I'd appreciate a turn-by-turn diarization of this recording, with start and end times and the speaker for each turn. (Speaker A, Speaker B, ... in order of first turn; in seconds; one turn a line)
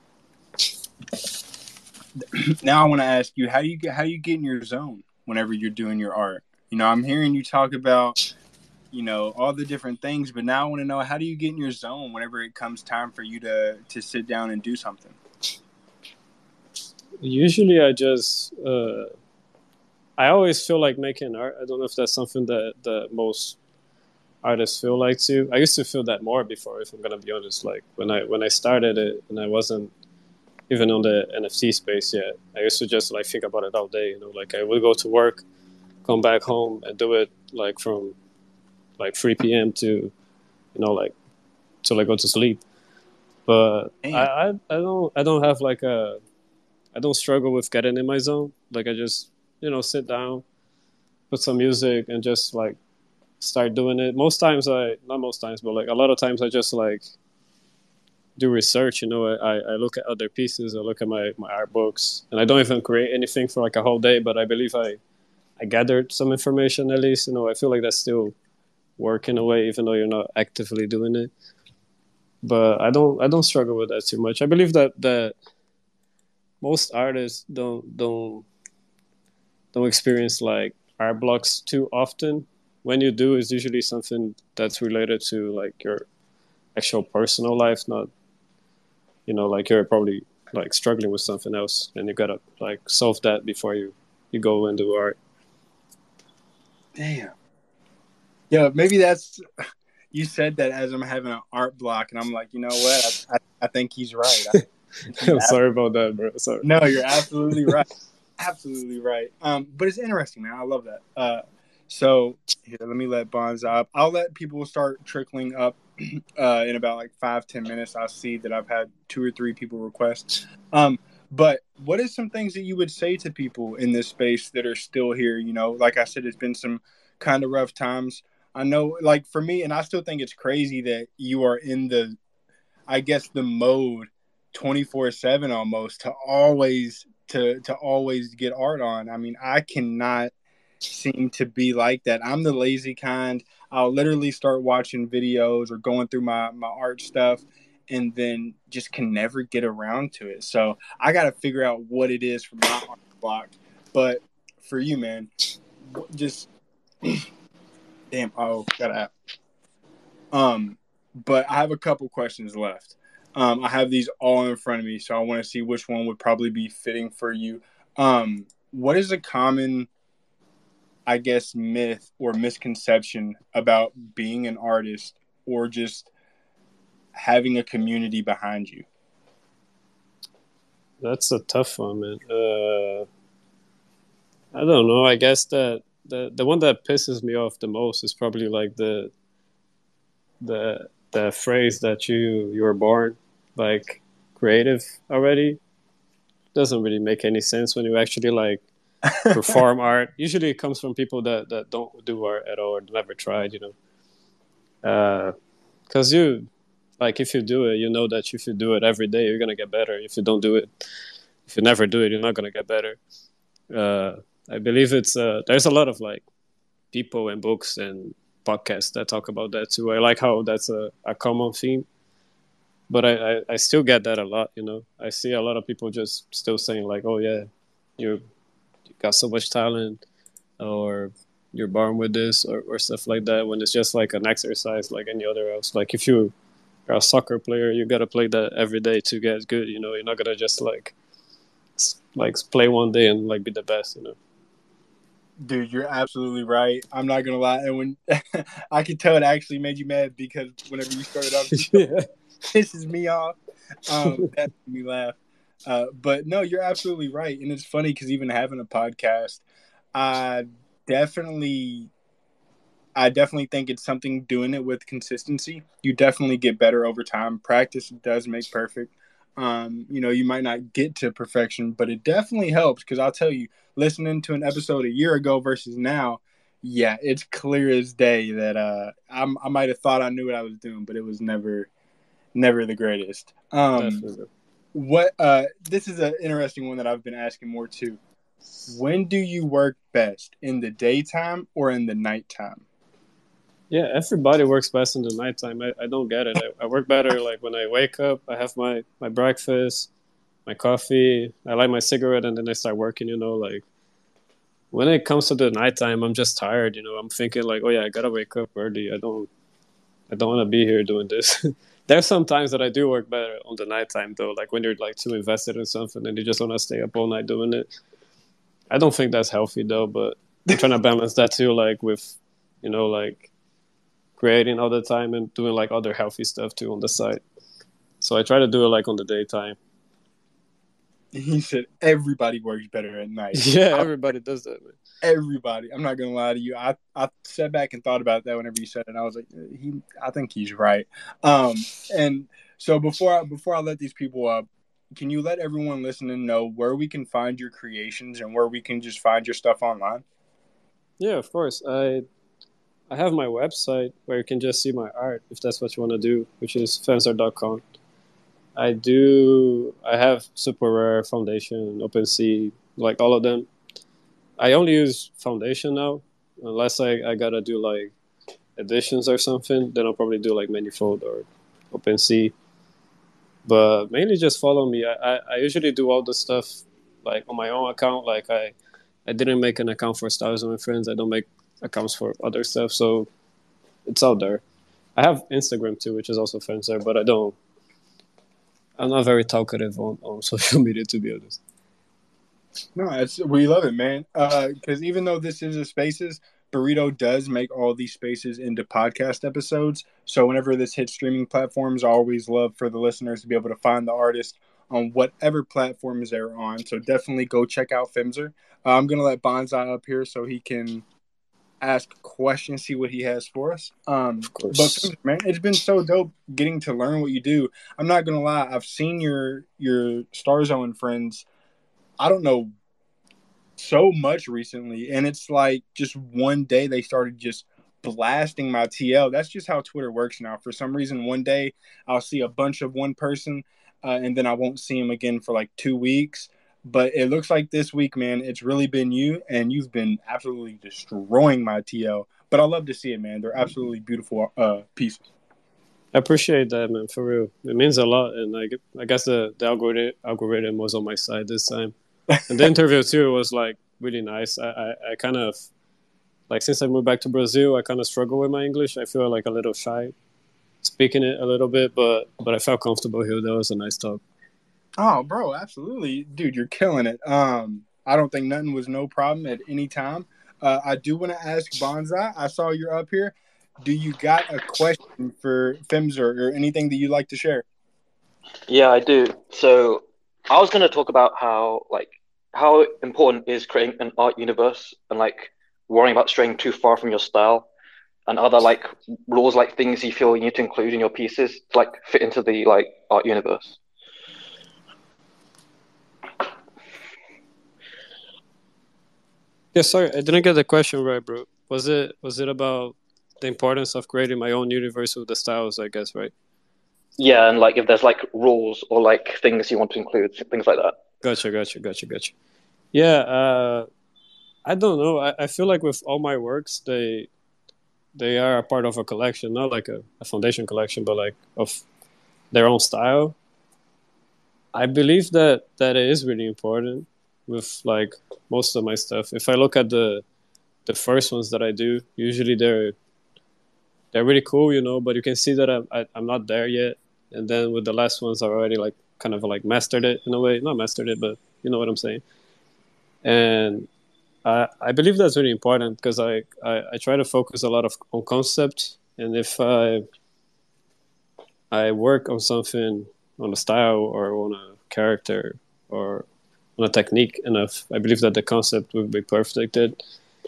Speaker A: 2.2-8.2
Speaker A: 8.9-15.2
Speaker B: 17.2-19.1
Speaker B: 20.2-23.6
Speaker B: 24.4-29.9
Speaker B: 30.7-35.4
Speaker B: 36.0-38.1
Speaker B: 39.0-40.1
Speaker B: 40.7-41.1
Speaker B: 41.8-42.6
Speaker B: 43.5-46.2
Speaker A: 44.0-44.3
Speaker B: 46.9-50.4
Speaker B: 51.3-52.8
Speaker B: 53.4-57.1
Speaker B: 58.4-65.0
Speaker B: 65.6-68.3
Speaker B: 69.0-71.3
Speaker B: 72.4-75.3
Speaker B: 76.6-78.5
Speaker B: 79.7-86.1
Speaker B: 86.7-88.1
Speaker B: 89.2-95.2
Speaker A: 97.0-97.3
Speaker A: 98.5-99.4
Speaker A: 100.1-104.6
Speaker B: 104.5-106.7
Speaker A: 105.1-105.6
Speaker A: 106.6-107.9
Speaker A: 108.4-132.2
Speaker A: 132.9-140.3
Speaker A: 140.9-155.3
Speaker A: 155.9-156.5
Speaker A: 158.1-159.1
Speaker A: 160.3-169.9
Speaker A: 171.1-176.1
Speaker A: 177.1-178.8
Speaker B: 181.0-183.1
Speaker B: 184.5-189.1
Speaker B: 190.4-195.6
Speaker B: 196.5-198.6
Speaker B: 199.3-203.7
Speaker B: 204.8-205.3
Speaker B: 205.9-206.5
Speaker B: 207.0-210.8
Speaker B: 211.4-213.0
Speaker B: 213.7-216.2
Speaker B: 216.9-221.8
Speaker B: 222.9-228.2
Speaker B: 228.9-230.0
Speaker B: 230.6-236.3
Speaker B: 236.9-240.9
Speaker B: 241.8-244.2
Speaker A: 245.4-251.8
Speaker B: 251.5-252.0
Speaker A: 252.5-259.4
Speaker B: 254.0-254.3
Speaker A: 259.9-261.9
Speaker A: 262.9-281.7
Speaker A: 282.3-284.0
Speaker B: 283.7-284.3
Speaker A: 284.7-288.0
Speaker A: 288.7-292.6
Speaker B: 293.7-299.9
Speaker B: 300.4-303.6
Speaker B: 304.7-309.3
Speaker B: 310.1-317.7
Speaker B: 318.7-323.3
Speaker B: 324.2-327.2
Speaker B: 328.0-329.6
Speaker A: 331.1-333.9
Speaker B: 333.3-334.8
Speaker A: 335.0-350.0
Speaker B: 351.0-352.1
Speaker B: 352.9-357.6
Speaker B: 358.6-363.5
Speaker B: 364.4-367.9
Speaker B: 368.6-372.3
Speaker B: 373.4-378.5
Speaker B: 379.1-383.1
Speaker B: 383.9-384.4
Speaker B: 384.9-387.4
Speaker B: 388.8-391.4
Speaker A: 392.7-410.8
Speaker A: 411.6-421.2
Speaker B: 414.3-414.9
Speaker A: 422.0-422.5
Speaker A: 423.6-445.1
Speaker B: 445.9-451.7
Speaker B: 452.3-455.5
Speaker B: 456.3-459.9
Speaker B: 460.6-464.0
Speaker A: 464.8-477.4
Speaker C: 478.5-487.5
Speaker C: 488.1-493.6
Speaker B: 499.5-506.1
Speaker C: 507.0-510.8
Speaker B: 511.0-512.1
Speaker B: 512.7-513.7
Speaker B: 514.5-517.1
Speaker B: 518.0-521.6
Speaker B: 522.3-523.1
Speaker B: 524.5-530.0
Speaker B: 530.6-532.7
Speaker B: 533.9-542.0
Speaker B: 543.0-543.7
Speaker B: 544.2-549.8
Speaker B: 551.5-559.8